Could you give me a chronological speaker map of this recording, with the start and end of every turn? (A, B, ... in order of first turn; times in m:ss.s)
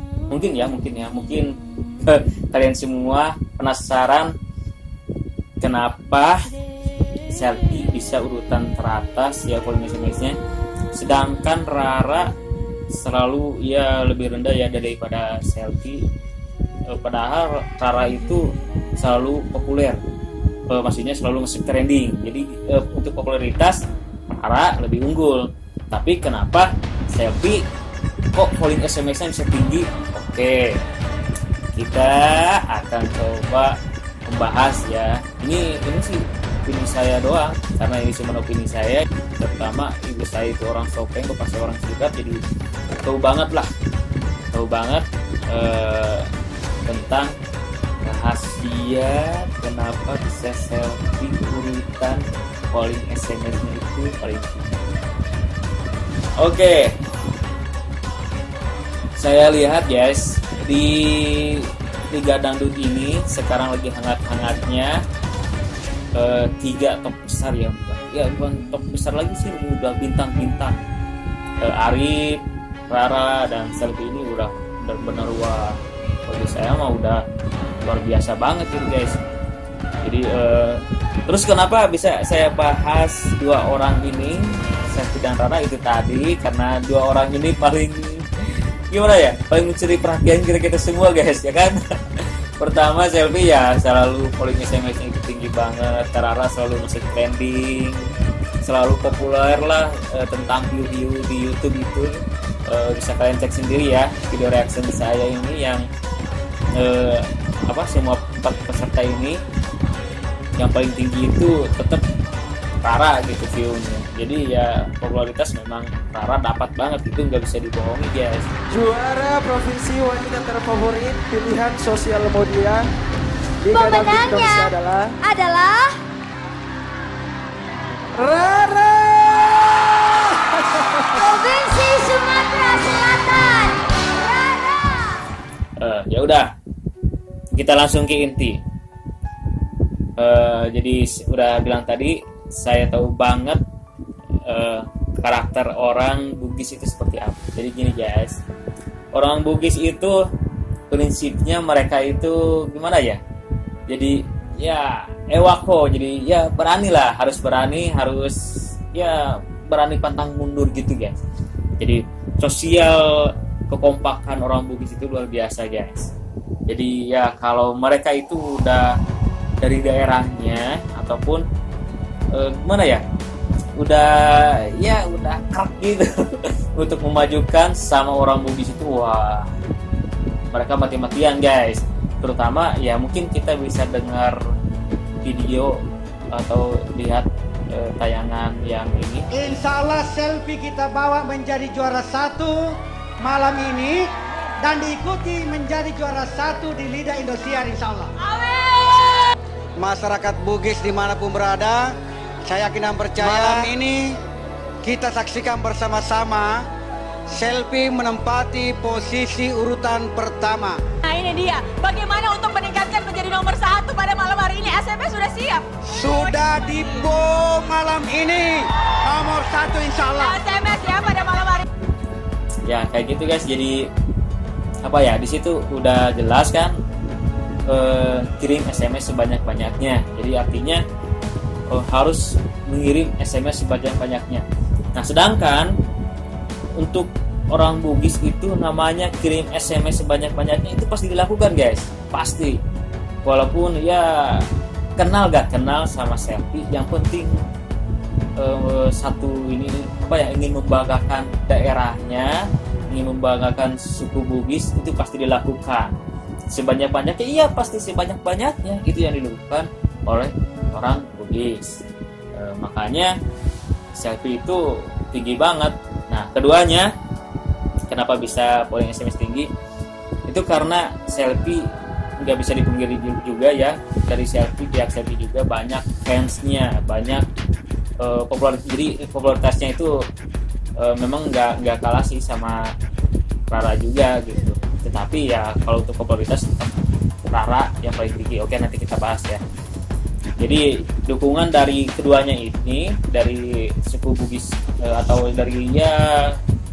0:00.3-0:01.5 A
0:02.0-0:04.3 A
0:05.6-0:06.4 A
0:07.3-0:10.3 A
0:10.9-0:12.3 A
0:12.9-0:16.0 A
0:16.9-0:20.0 A
0:20.7-0:23.8 A
0:24.3-0:27.6 A
0:28.3-0:30.8 A
0:31.7-0:33.7 A
0:34.3-0:42.4 A
0:43.0-0:43.7 A
0:44.5-0:46.3 A
0:46.9-0:47.3 A
0:48.0-0:54.7 A
0:56.4-0:57.0 A
0:59.2-1:04.9 A
1:06.2-1:10.7 A
1:11.6-1:17.2 A
1:17.8-1:19.2 A
1:20.0-1:28.3 A
1:28.9-1:42.2 A
1:42.7-1:45.8 A
1:46.8-1:49.4 A
1:50.6-1:52.0 A
1:52.8-1:58.5 A
1:58.7-2:02.9 B
2:03.6-2:05.2 B
2:03.7-2:06.0 C
2:08.1-2:11.3 B
2:11.2-2:15.3 C
2:15.8-2:16.5 A
2:17.5-2:18.6 A
2:20.2-2:23.6 A
2:24.5-2:28.4 A
2:29.1-2:30.2 A
2:30.9-2:33.2 A
2:33.9-2:38.4 A
2:38.9-2:41.2 A
2:41.8-2:46.1 A
2:46.7-2:49.0 A
2:49.6-2:51.4 A
2:52.3-2:53.0 A
2:53.8-2:59.5 A
3:00.5-3:04.4 A
3:05.2-3:05.8 A
3:06.3-3:09.3 A
3:09.3-3:12.6 D
3:13.2-3:14.0 D
3:14.6-3:18.1 D
3:18.3-3:19.1 E
3:19.8-3:21.9 D
3:22.4-3:24.0 D
3:24.8-3:26.6 D
3:27.3-3:30.8 D
3:31.0-3:37.1 E
3:35.9-3:40.4 D
3:40.2-3:41.6 E
3:42.6-3:43.8 A
3:44.8-3:46.8 A
3:47.7-3:50.8 A
3:51.7-3:55.7 A
3:56.8-4:02.6 A
4:03.2-4:04.4 A
4:05.0-4:07.4 A
4:08.4-4:15.9 A
4:16.5-4:21.8 A
4:22.4-4:23.1 A
4:23.9-4:26.9 A
4:27.9-4:29.5 A
4:30.3-4:31.6 A
4:32.2-4:37.2 A
4:38.0-4:39.9 A
4:40.8-4:42.7 A
4:43.5-4:46.7 A
4:47.3-4:49.4 A
4:50.4-4:56.4 A